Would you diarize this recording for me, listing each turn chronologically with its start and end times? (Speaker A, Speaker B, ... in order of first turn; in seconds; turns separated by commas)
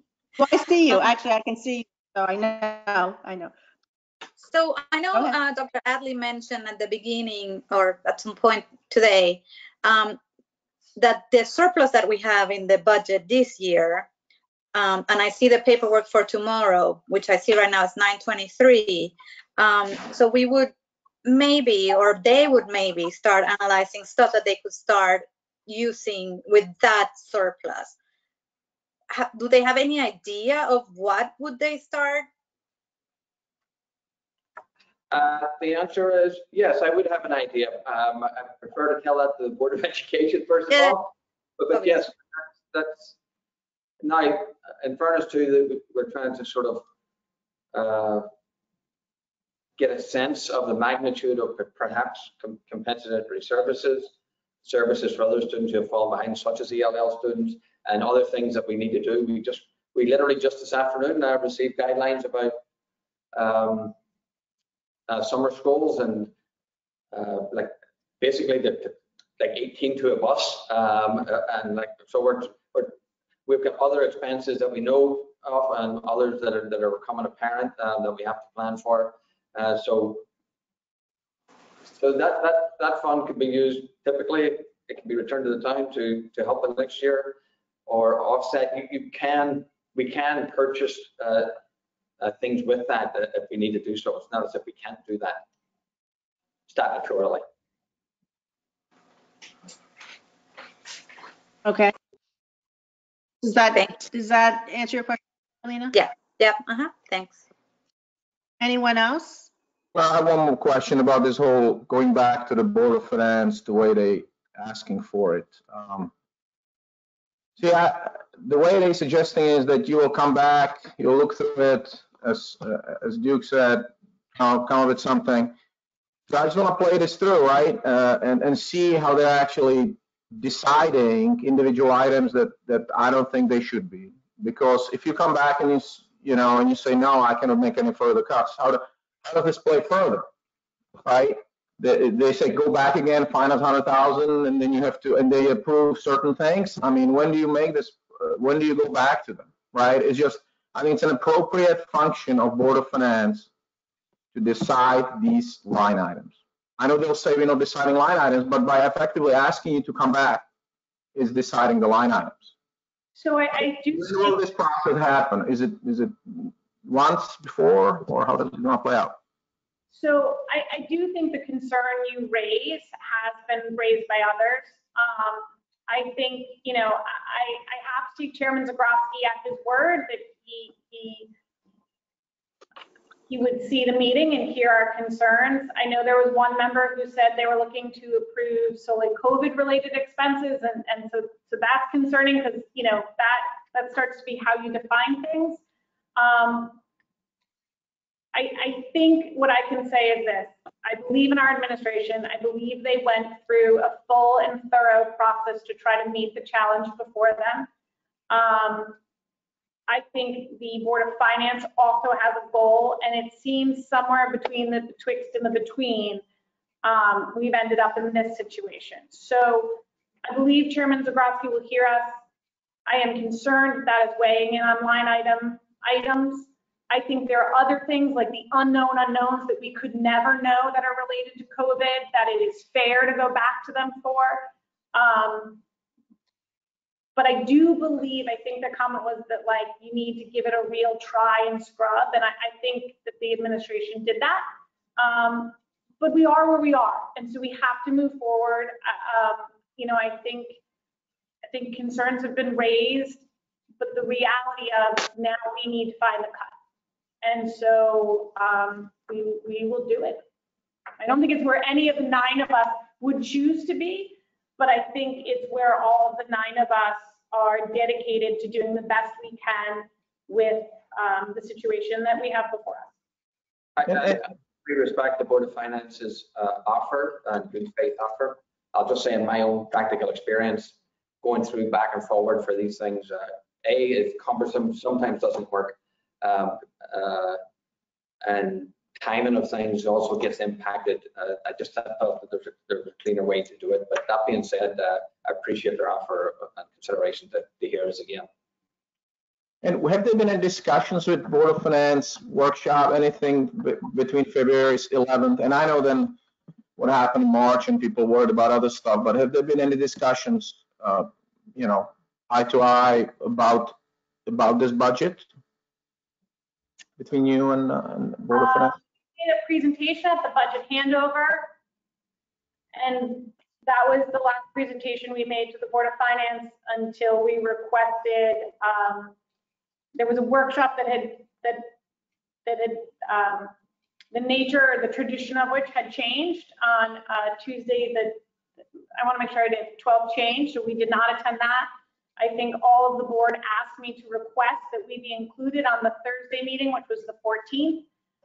Speaker A: 0.4-3.5, Speaker B: 4.4-10.2, Speaker B: 11.0-14.1, Speaker B: 14.7-20.7, Speaker B: 21.2-28.0, Speaker B: 29.1-32.3, Speaker C: 35.1-43.1, Speaker B: 41.7-42.0, Speaker C: 44.0-46.8, Speaker C: 47.7-48.3, Speaker C: 49.8-54.1, Speaker C: 54.6-62.6, Speaker C: 63.3-64.0, Speaker C: 65.1-66.3, Speaker C: 67.1-80.2, Speaker C: 81.9-91.6, Speaker C: 92.2-95.4, Speaker C: 96.7-97.4, Speaker A: 101.7-101.9, Speaker A: 103.4-105.9, Speaker B: 103.7-104.0, Speaker B: 105.9-107.4, Speaker A: 108.6-109.5, Speaker D: 109.9-116.1, Speaker D: 117.6-125.5, Speaker D: 126.3-140.3, Speaker D: 141.0-153.5, Speaker D: 154.3-160.5, Speaker D: 161.2-162.5, Speaker E: 163.2-164.4, Speaker D: 163.9-169.2, Speaker E: 169.9-181.3, Speaker E: 183.3-195.6, Speaker E: 196.2-196.8, Speaker E: 198.3-207.7, Speaker E: 208.3-209.0, Speaker E: 209.9-216.2, Speaker E: 216.8-222.2, Speaker E: 222.9-235.6, Speaker E: 237.2-250.6, Speaker E: 251.5-253.2, Speaker E: 253.8-256.6, Speaker E: 257.2-260.2, Speaker E: 261.0-272.9, Speaker C: 273.8-287.4, Speaker D: 273.9-274.2, Speaker C: 288.2-298.3, Speaker D: 299.6-306.2, Speaker D: 306.8-315.3, Speaker D: 317.0-318.8, Speaker E: 318.3-321.5, Speaker E: 322.8-329.1, Speaker E: 329.9-331.7, Speaker E: 332.5-333.5, Speaker E: 334.1-338.2, Speaker E: 339.0-347.9